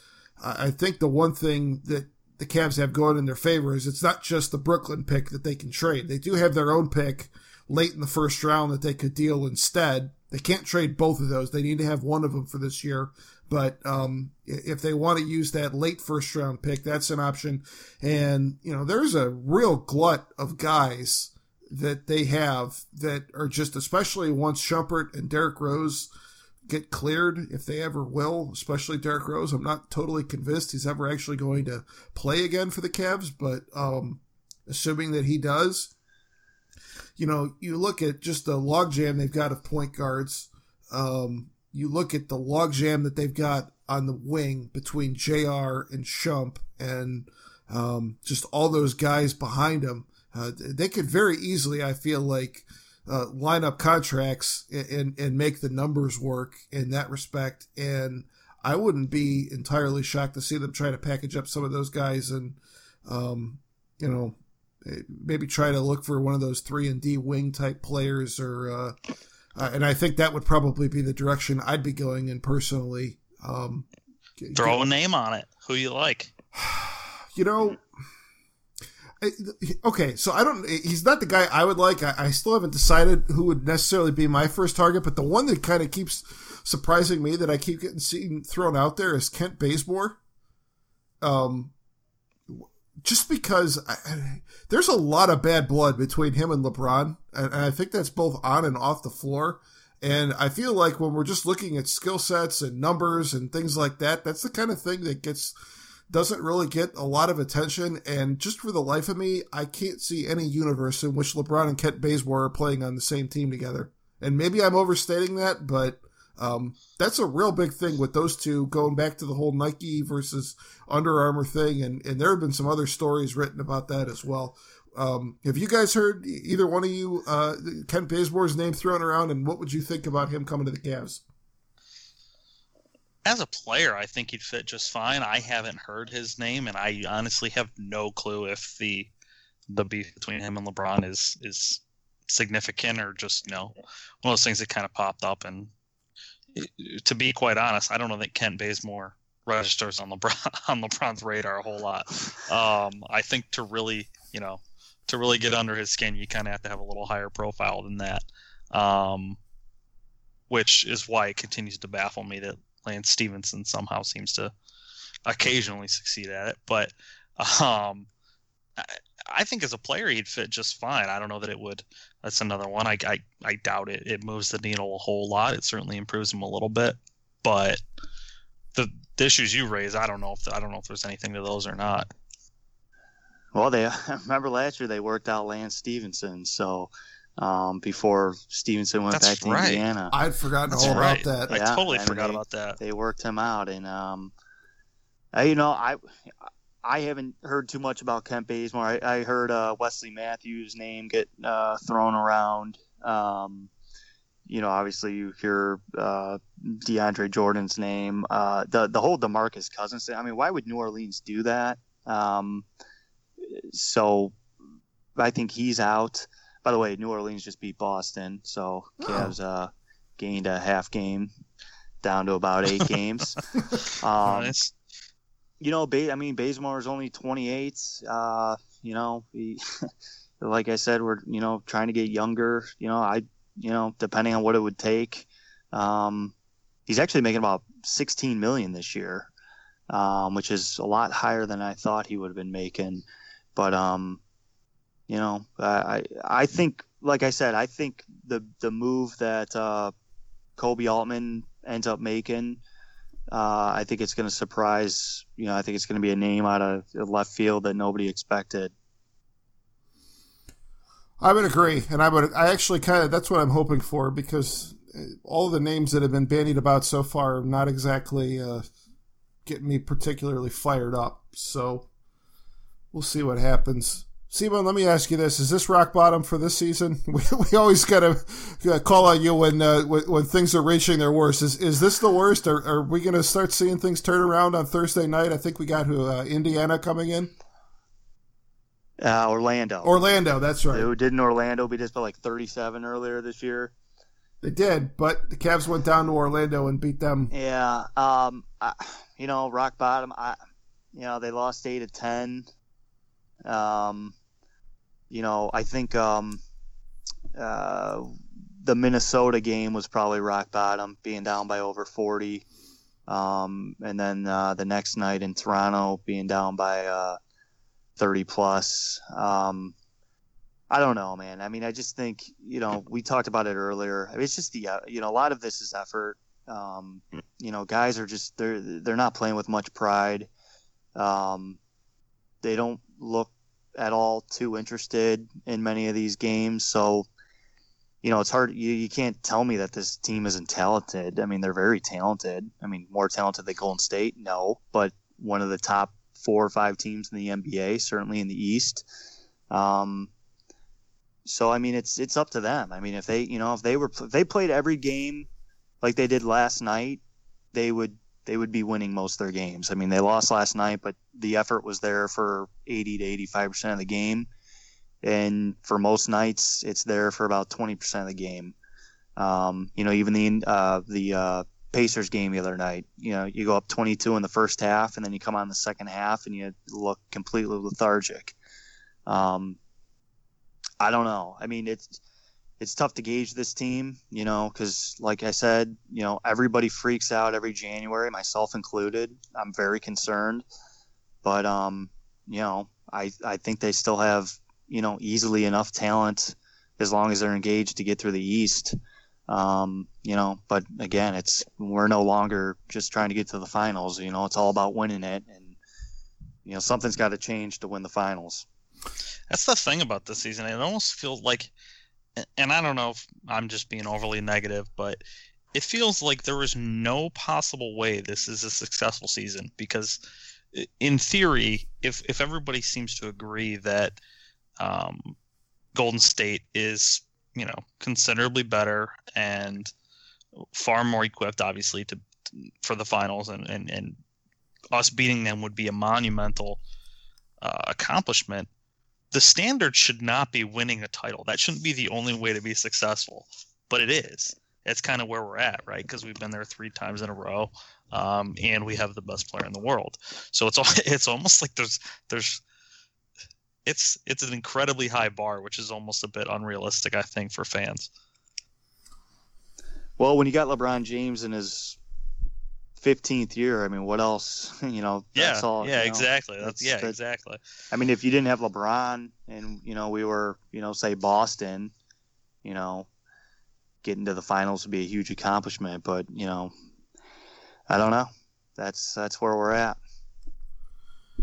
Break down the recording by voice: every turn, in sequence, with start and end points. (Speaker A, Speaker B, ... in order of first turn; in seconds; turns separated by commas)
Speaker A: 0.4-26.1, Speaker A: 26.7-35.9, Speaker A: 37.2-69.0, Speaker A: 69.5-73.9, Speaker A: 74.4-74.9, Speaker B: 74.5-76.3, Speaker A: 76.5-77.8, Speaker A: 79.2-90.2, Speaker A: 91.2-91.7, Speaker A: 92.5-105.5, Speaker A: 106.1-131.2, Speaker B: 133.2-139.1, Speaker B: 139.7-145.7, Speaker B: 146.5-159.4, Speaker B: 160.5-164.5, Speaker B: 165.2-168.1, Speaker B: 168.8-177.8, Speaker B: 178.7-182.1, Speaker C: 183.5-190.1, Speaker B: 189.1-189.8, Speaker A: 190.1-191.5, Speaker B: 190.7-192.8, Speaker C: 190.8-194.3, Speaker C: 195.3-196.3, Speaker C: 196.8-203.7, Speaker C: 204.5-212.7, Speaker C: 213.4-214.4, Speaker C: 215.2-221.3, Speaker A: 219.0-219.3, Speaker C: 222.0-223.4, Speaker B: 222.8-223.4, Speaker C: 223.9-224.5, Speaker B: 224.2-224.7, Speaker C: 225.6-229.6, Speaker C: 230.4-236.3, Speaker C: 236.8-239.3, Speaker C: 239.9-244.2, Speaker C: 245.1-249.9, Speaker C: 250.6-252.6, Speaker C: 253.3-258.7, Speaker A: 261.2-268.6, Speaker A: 269.4-271.9, Speaker A: 272.9-287.3, Speaker C: 289.0-290.0, Speaker A: 289.8-290.9, Speaker C: 290.7-293.7, Speaker A: 294.4-297.3, Speaker C: 297.3-300.4, Speaker C: 300.9-302.5, Speaker C: 303.4-304.1, Speaker C: 305.1-306.4, Speaker C: 307.3-308.1, Speaker C: 308.6-312.4, Speaker C: 313.1-317.2, Speaker C: 318.0-319.7, Speaker C: 320.7-330.3, Speaker C: 330.9-331.6, Speaker C: 332.4-337.1, Speaker C: 338.0-348.8, Speaker C: 349.5-350.1, Speaker C: 351.2-355.3, Speaker C: 355.8-357.0, Speaker C: 357.5-364.3, Speaker C: 365.0-368.5, Speaker C: 369.2-378.4, Speaker C: 379.1-379.6, Speaker C: 380.8-382.0, Speaker C: 382.6-390.4, Speaker C: 391.2-398.7, Speaker C: 399.3-405.6, Speaker C: 406.4-408.4, Speaker B: 409.3-411.5, Speaker B: 412.2-415.0, Speaker B: 415.5-420.0, Speaker B: 420.5-424.0, Speaker B: 424.6-425.1, Speaker B: 425.7-429.7, Speaker B: 430.5-434.0, Speaker B: 434.7-436.6, Speaker B: 437.4-438.5, Speaker B: 439.1-452.4, Speaker B: 453.6-457.9, Speaker C: 460.0-461.8, Speaker C: 462.8-466.9, Speaker B: 465.1-467.4, Speaker C: 467.7-471.7, Speaker C: 472.4-472.9, Speaker C: 473.8-476.5, Speaker C: 477.7-479.8